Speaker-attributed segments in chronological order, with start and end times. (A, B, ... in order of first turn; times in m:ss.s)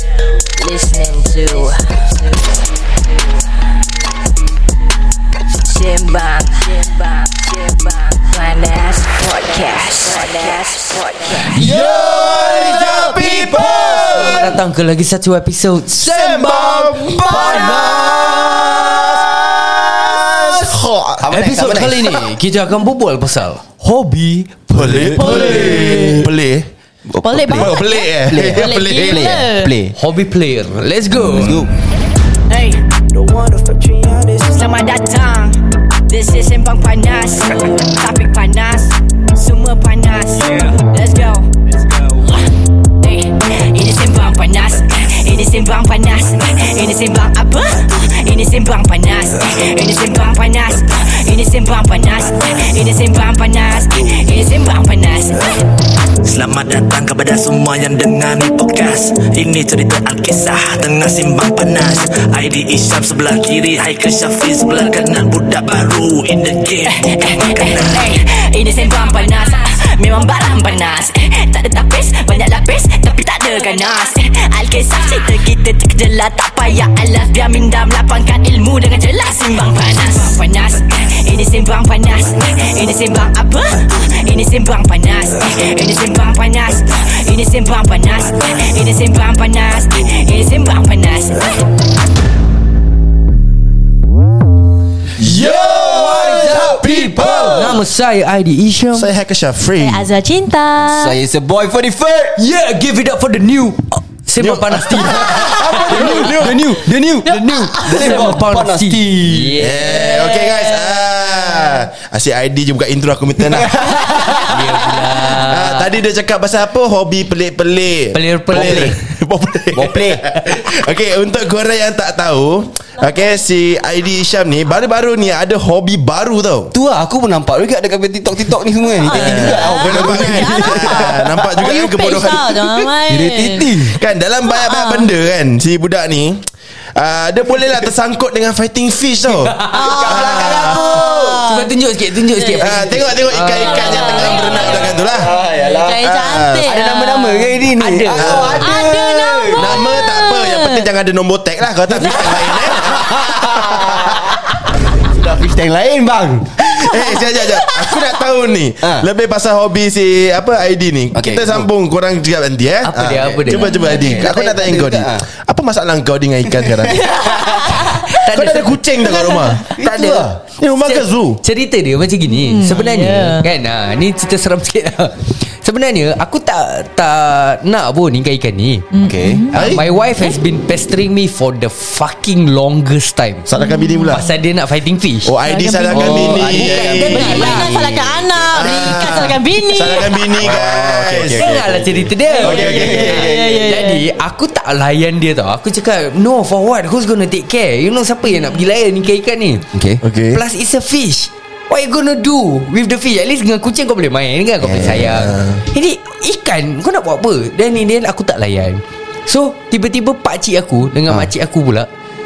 0:00.4-0:02.4 A
0:05.6-0:11.7 A
0:11.5-0:14.6 B
0:11.6-0:14.4 C
0:12.6-0:14.2 D
0:14.1-0:18.0 E
0:16.0-0:21.2 B
0:16.5-0:22.2 C
0:17.0-0:18.0 D
0:21.3-0:25.9 E
0:24.7-0:26.7 B
0:24.8-0:26.3 C
0:25.2-0:26.3 D
0:27.1-0:30.0 C
0:27.2-0:29.7 D
0:27.6-0:29.4 B
0:30.0-0:31.6 E
0:31.3-0:31.7 C
0:32.5-0:41.5 A
0:43.0-0:55.7 A
0:56.2-1:08.1 F
1:06.9-1:31.6 A
1:35.2-1:37.8 B
1:35.2-1:37.8 C
1:35.3-1:39.1 E
1:38.9-1:40.1 B
1:39.8-1:41.2 D
1:40.8-1:42.4 C
1:42.4-1:46.6 E
1:44.4-1:46.6 B
1:45.0-1:49.6 C
1:47.2-1:50.1 E
1:47.3-1:48.1 D
1:49.6-1:54.5 B
1:49.9-1:51.7 D
1:53.4-1:54.8 C
1:54.5-1:55.9 E
1:55.3-2:06.7 B
1:58.1-1:59.0 E
1:58.5-1:59.0 C
1:59.7-2:00.2 C
2:06.7-2:12.2 C
2:09.0-2:13.9 D
2:09.1-2:12.9 B
2:13.1-2:14.0 C
2:13.9-2:20.9 B
2:14.4-2:15.1 D
2:19.3-2:19.8 E
2:19.7-2:21.4 C
2:19.7-2:21.7 D
2:21.4-2:24.7 E
2:22.3-2:22.9 D
2:22.6-2:25.3 B
2:23.5-2:27.4 D
2:24.6-2:29.9 C
2:26.0-2:26.6 B
2:27.8-2:28.5 E
2:28.2-2:28.8 B
2:28.6-2:30.9 D
2:29.5-2:34.3 B
2:31.9-2:36.7 C
2:36.6-2:51.4 B
2:37.4-2:38.1 D
2:38.8-2:39.1 C
2:41.1-2:41.7 C
2:42.8-2:43.7 E
2:43.5-2:44.2 D
2:43.8-2:45.3 C
2:46.5-2:47.6 C
2:46.9-2:48.1 D
2:48.0-2:48.8 E
2:49.1-2:49.6 D
2:49.7-2:50.3 E
2:49.7-2:50.4 C
2:50.8-2:58.9 E
2:52.3-2:53.5 D
2:58.9-2:59.7 D
2:59.0-2:59.5 C
2:59.5-3:03.5 E
2:59.5-2:59.8 B
3:03.5-3:04.2 B
3:03.6-3:04.3 D
3:04.1-3:05.3 E
3:05.2-3:07.4 B
3:05.4-3:10.5 D
3:05.9-3:09.3 C
3:05.9-3:07.7 E
3:08.6-3:11.5 B
3:10.4-3:13.6 C
3:11.3-3:19.7 E
3:12.3-3:14.1 D
3:12.4-3:13.2 B
3:19.7-3:20.0 C
3:20.0-3:20.4 B
3:20.3-3:31.9 E
3:24.6-3:25.3 C
3:25.3-3:25.6 B